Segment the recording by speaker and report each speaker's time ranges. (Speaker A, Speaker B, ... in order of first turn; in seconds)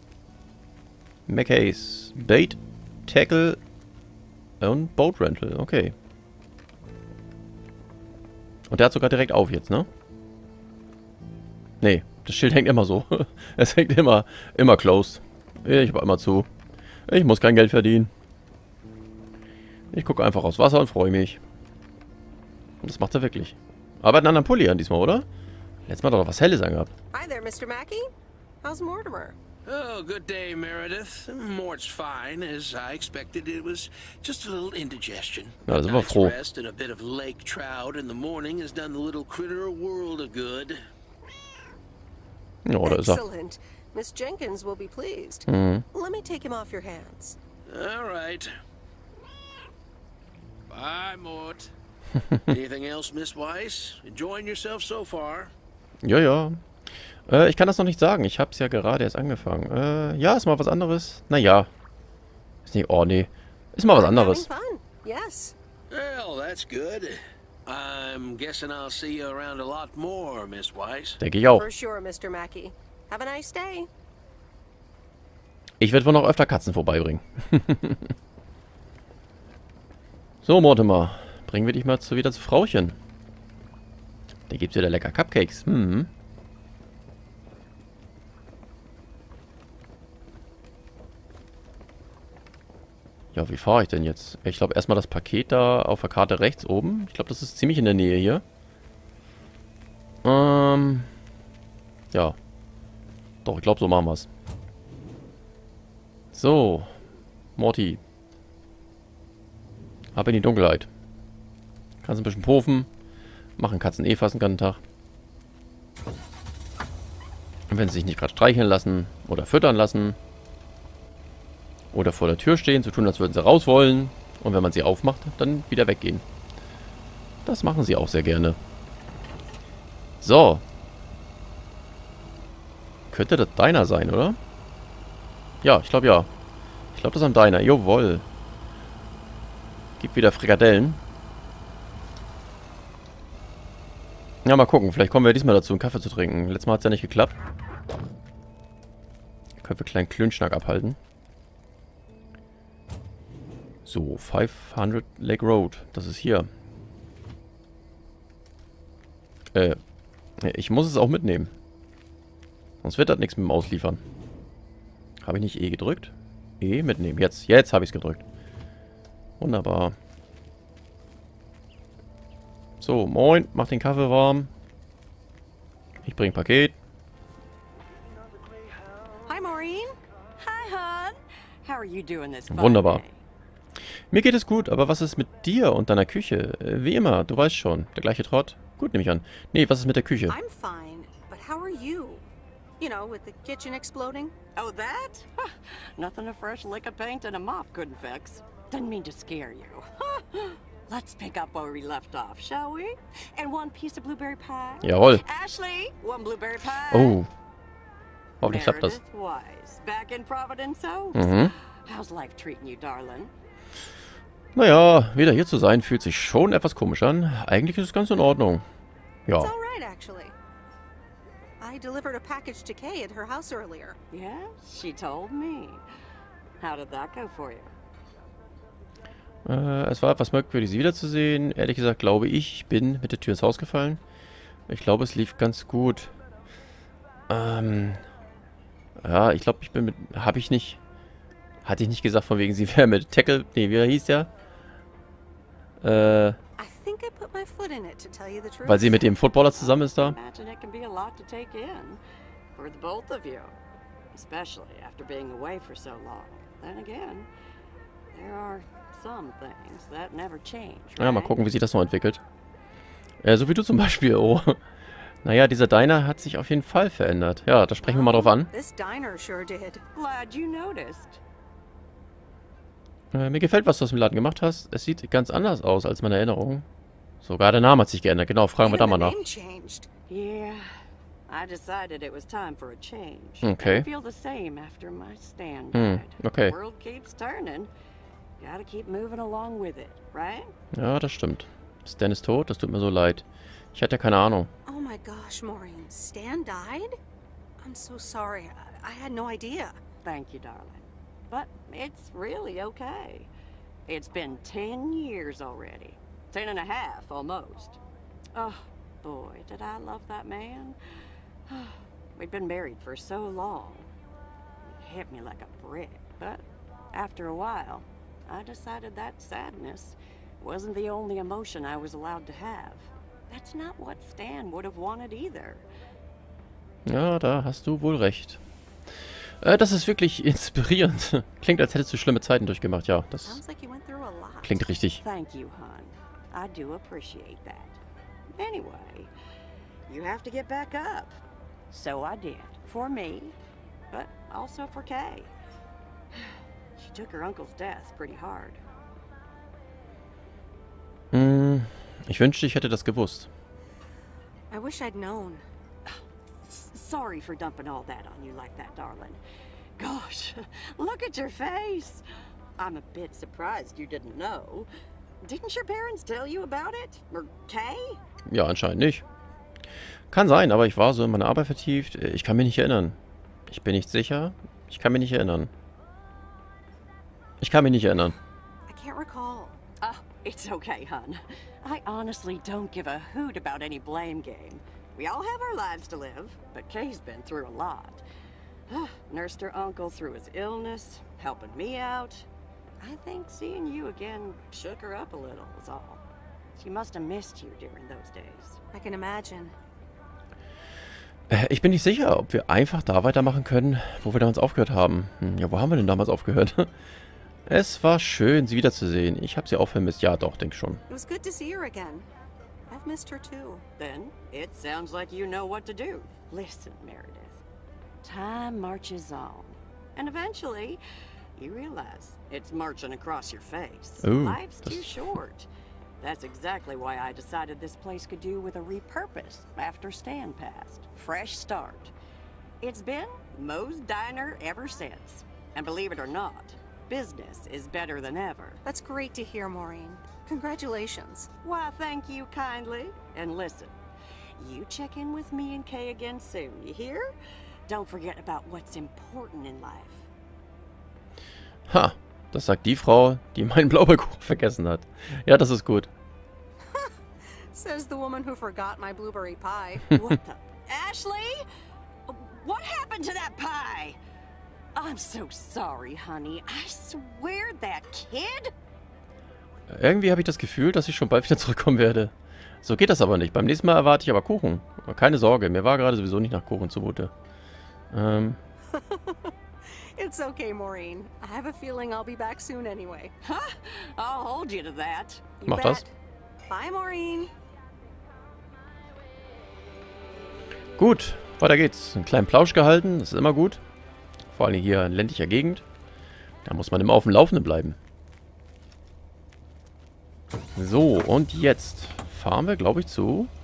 Speaker A: 1.3-3.6, 4.6-5.9, 8.7-9.9, 11.8-16.5, 17.1-18.1, 19.9-21.4, 22.8-25.2, 25.9-26.9, 35.7-36.4, 42.6-43.2, 45.5-45.8, 56.0-56.6, 57.3-61.7, 62.6-64.5, 71.2-71.7, 75.8-78.1, 80.4-83.0, 84.5-86.1, 93.3-98.4, 100.2-101.1, 103.4-104.3, 106.3-106.9, 107.6-108.0, 110.1-110.9, 112.0-112.9, 113.6-114.8, 117.7-120.2, 121.9-126.2, 127.4-128.6, 130.2-130.6, 133.1-134.4, 135.6-136.3, 136.9-138.2, 140.0-141.0, 144.4-147.3, 149.6-151.0, 153.8-156.5, 159.5-159.8, 160.4-161.5, 162.8-164.0, 165.2-168.2, 169.4-169.9, 172.8-174.5, 176.0-176.8, 182.5-183.0, 184.1-190.3, 204.8-205.2, 206.9-207.3, 208.4-209.0, 211.1-211.5, 214.6-218.6, 219.2-219.5, 229.4-234.0, 234.7-236.1, 237.3-238.0, 239.0-240.8, 241.6-244.3, 245.8-246.4, 248.7-250.2, 261.0-262.2, 263.2-264.6, 265.2-268.5, 273.1-276.6, 277.2-279.2, 283.4-283.9, 285.7-286.6, 290.7-294.5, 326.9-328.4, 329.4-333.4, 334.4-335.0, 351.1-353.3, 368.3-369.0, 370.1-372.9, 373.5-375.5, 377.4-378.1, 401.3-406.7, 407.5-410.8, 424.0-424.9, 451.7-455.9, 469.7-477.1, 477.9-478.4, 485.4-485.8, 490.8-493.6, 494.3-495.6, 496.4-497.8, 500.6-503.3
Speaker B: 27.1-28.1, 28.6-29.4, 42.8-47.4, 63.8-65.5, 71.5-73.9, 179.2-179.9, 190.3-192.2, 192.8-194.3, 219.4-220.3, 221.6-224.0, 246.6-249.1, 267.8-269.8, 278.6-279.9, 294.6-296.9, 297.6-299.8, 333.2-334.6, 354.5-355.4, 378.7-379.6, 398.7-399.5, 410.9-412.1, 412.7-413.6, 438.6-441.3, 456.7-456.9, 457.5-460.0, 478.7-483.1, 485.4-485.9, 486.5-487.3
Speaker C: 29.6-40.8, 47.7-48.5, 50.7-51.7, 52.5-55.5, 65.9-71.2
Speaker D: 180.4-183.2, 194.5-207.2, 208.4-213.3, 224.1-225.8, 226.6-227.7, 249.6-252.0, 252.6-253.5, 254.1-257.3, 258.1-261.3, 269.9-271.2, 280.1-280.7, 281.3-287.7, 288.4-290.5, 300.0-303.3, 303.9-307.8, 308.3-310.8, 311.5-313.9, 314.6-325.7, 335.0-337.8, 338.3-339.1, 339.9-341.2, 341.7-343.3, 343.9-345.3, 346.8-348.6, 355.9-359.2, 359.8-362.0, 362.6-364.7, 365.2-368.0, 379.8-388.0, 388.7-392.3, 392.8-396.0, 396.6-398.6, 413.8-417.4, 418.0-420.8, 421.4-425.5, 426.0-431.9, 432.6-438.6, 441.4-443.7, 444.4-447.1, 447.7-450.1, 459.9-461.4, 462.1-464.0, 464.7-468.5, 483.2-485.3